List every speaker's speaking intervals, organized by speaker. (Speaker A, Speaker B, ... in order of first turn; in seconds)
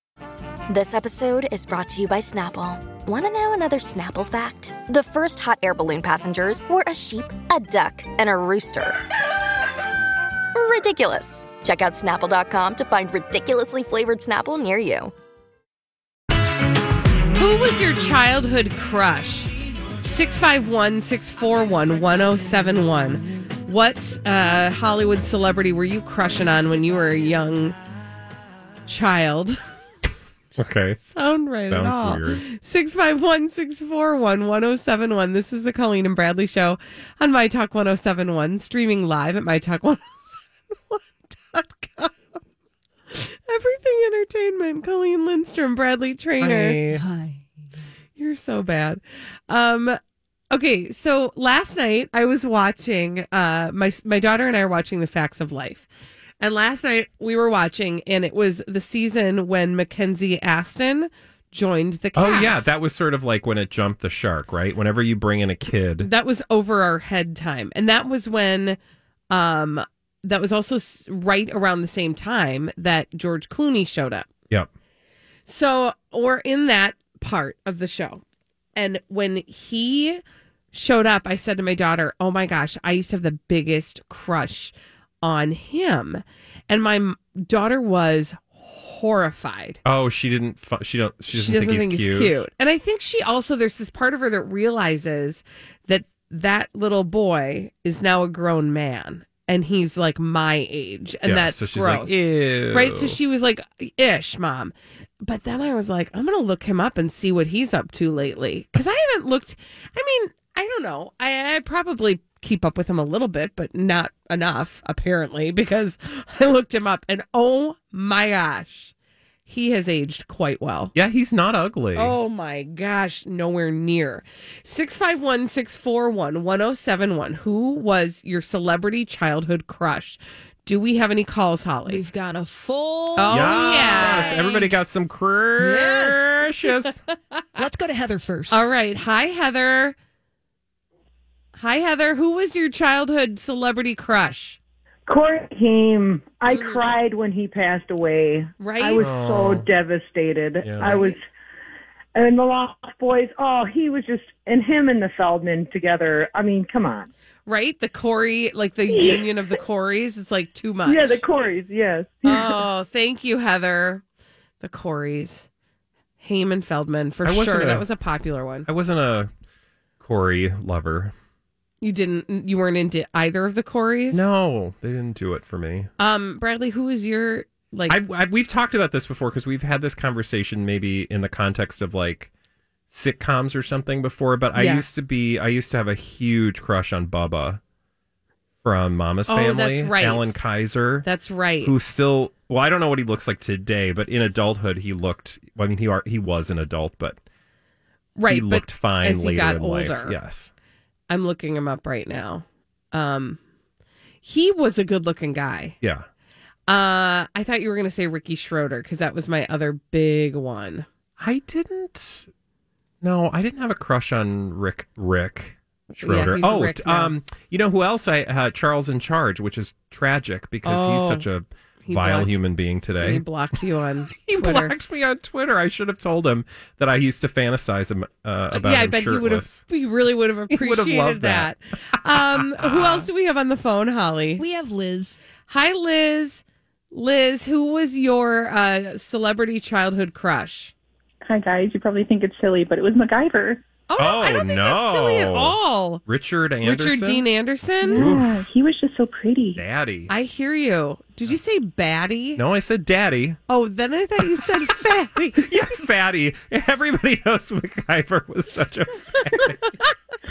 Speaker A: 0.7-9.0, 10.5-15.1
Speaker B: 17.3-19.5, 20.0-27.8, 28.9-29.6, 31.0-42.3, 43.1-46.8, 48.1-50.0, 50.5-55.9, 56.4-62.7, 66.0-68.8, 69.3-74.3, 75.5-78.2, 78.7-80.2, 80.7-89.8, 91.3-118.9, 119.5-120.9, 121.9-132.0, 133.2-134.4, 138.5-139.9, 141.5-144.6, 146.5-146.9, 148.6-149.1, 157.4-161.2, 162.2-164.0, 164.6-165.4, 166.2-168.7, 171.8-174.3, 176.0-178.0, 184.5-184.8, 189.3-190.3, 191.0-191.7, 198.2-200.2, 201.1-203.4, 204.2-205.8, 206.7-210.9, 216.0-217.2, 220.6-221.3, 221.8-222.4, 223.0-224.7, 228.5-234.4, 235.5-240.7, 243.9-246.0, 246.6-248.1, 250.1-252.4, 253.5-255.5
Speaker C: 30.6-31.0, 31.7-32.4, 46.4-47.0, 62.1-66.1, 89.8-92.4, 101.2-103.2, 120.9-122.2, 133.3-137.0, 149.0-149.7, 150.6-151.1, 167.2-167.8, 168.7-169.3, 170.0-171.1, 174.1-175.9, 177.9-182.3, 182.9-187.6, 188.6-191.1, 191.6-197.2, 198.3-200.5, 205.8-206.1, 211.2-212.3, 213.0-223.2, 224.1-229.6, 230.5-231.5, 232.1-233.1, 244.0-247.2, 247.9-248.5, 249.5-250.1, 252.3-253.4, 255.4-259.6
Speaker D: 46.9-47.4, 131.8-134.8, 135.6-136.5, 137.6-138.7, 234.4-235.2
Speaker E: 145.1-151.2, 152.1-157.1, 160.9-162.5
Speaker F: 241.3-243.6, 247.9-249.6